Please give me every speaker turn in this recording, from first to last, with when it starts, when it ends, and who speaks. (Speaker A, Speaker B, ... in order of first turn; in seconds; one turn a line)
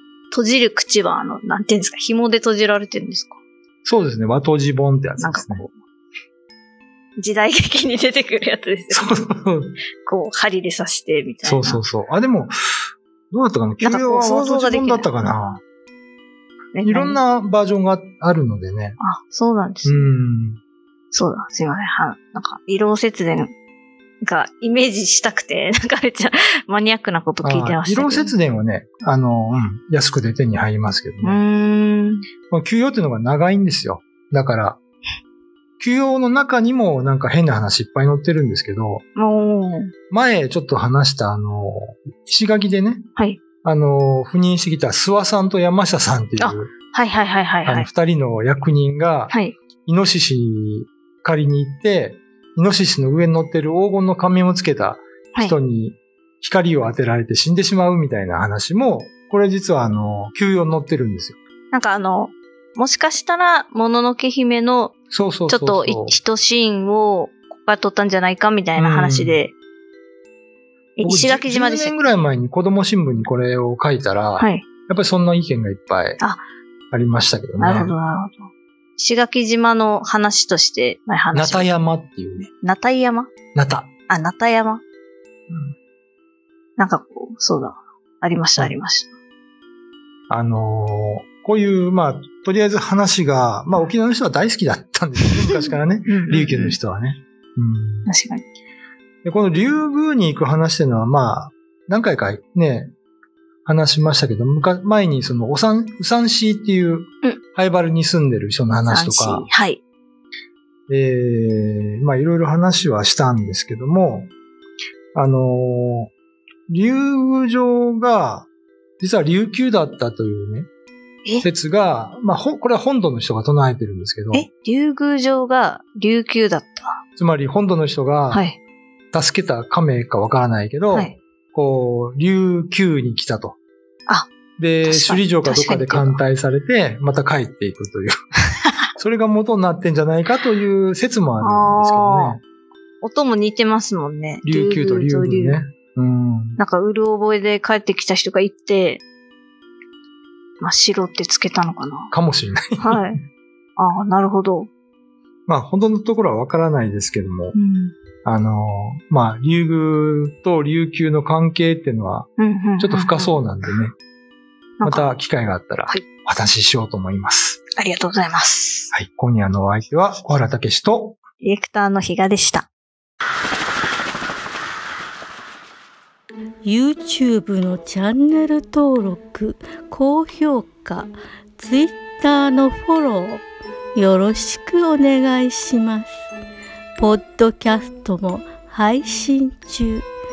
Speaker A: 0.3-3.4
Speaker B: 3.9-5.7
Speaker A: 5.2-5.7
Speaker A: 7.2-9.2
Speaker B: 8.9-9.8
Speaker A: 10.0-11.8
Speaker B: 11.4-12.6
Speaker B: 13.3-15.6
Speaker A: 13.8-15.1
Speaker A: 16.7-17.2
Speaker B: 16.9-19.0
Speaker A: 19.0-20.1
Speaker B: 19.9-20.6
Speaker A: 21.1-23.5
Speaker A: 24.2-28.3
Speaker B: 27.4-31.4
Speaker A: 31.2-32.2
Speaker B: 32.5-34.8
Speaker B: 35.8-39.0
Speaker A: 39.2-39.9
Speaker B: 40.1-43.1
Speaker A: 43.2-43.4
Speaker B: 43.6-46.7
Speaker A: 46.4-47.9
Speaker B: 47.6-61.4
Speaker A: 49.3-49.6
Speaker A: 61.7-65.0
Speaker B: 65.1-66.2
Speaker A: 65.5-69.5
Speaker B: 68.8-69.4
Speaker A: 71.0-72.0
Speaker B: 71.0-76.2
Speaker A: 74.4-74.7
Speaker B: 76.9-78.0
Speaker A: 77.6-81.7
Speaker B: 81.3-82.5
Speaker A: 82.6-83.3
Speaker B: 83.5-83.9
Speaker A: 84.1-84.8
Speaker A: 86.8-89.1
Speaker B: 90.3-98.1
Speaker A: 96.1-96.8
Speaker A: 98.1-98.5
Speaker B: 99.2-102.9
Speaker B: 103.7-109.5
Speaker A: 108.9-109.8
Speaker B: 110.9-114.3
Speaker B: 115.2-116.1
Speaker B: 116.7-118.5
Speaker B: 119.0-120.7
Speaker B: 121.4-124.5
Speaker A: 124.3-127.0
Speaker B: 127.2-128.5
Speaker A: 128.3-128.6
Speaker B: 129.1-133.6
Speaker A: 130.9-131.2
Speaker B: 134.6-138.2
Speaker A: 134.8-136.2
Speaker B: 139.0-142.4
Speaker A: 141.4-142.4
Speaker A: 143.0-145.6
Speaker B: 144.4-146.6
Speaker A: 146.6-149.0
Speaker A: 150.6-152.1
Speaker B: 152.1-153.1
Speaker A: 152.8-153.2
Speaker A: 153.8-154.7
Speaker B: 155.5-157.6
Speaker A: 157.6-157.9
Speaker B: 158.2-164.0
Speaker A: 162.4-163.4
Speaker A: 164.8-165.1
Speaker B: 164.8-167.6
Speaker A: 167.8-168.9
Speaker B: 168.9-171.2
Speaker A: 171.4-172.7
Speaker C: 176.6-186.2
Speaker C: 187.0-190.1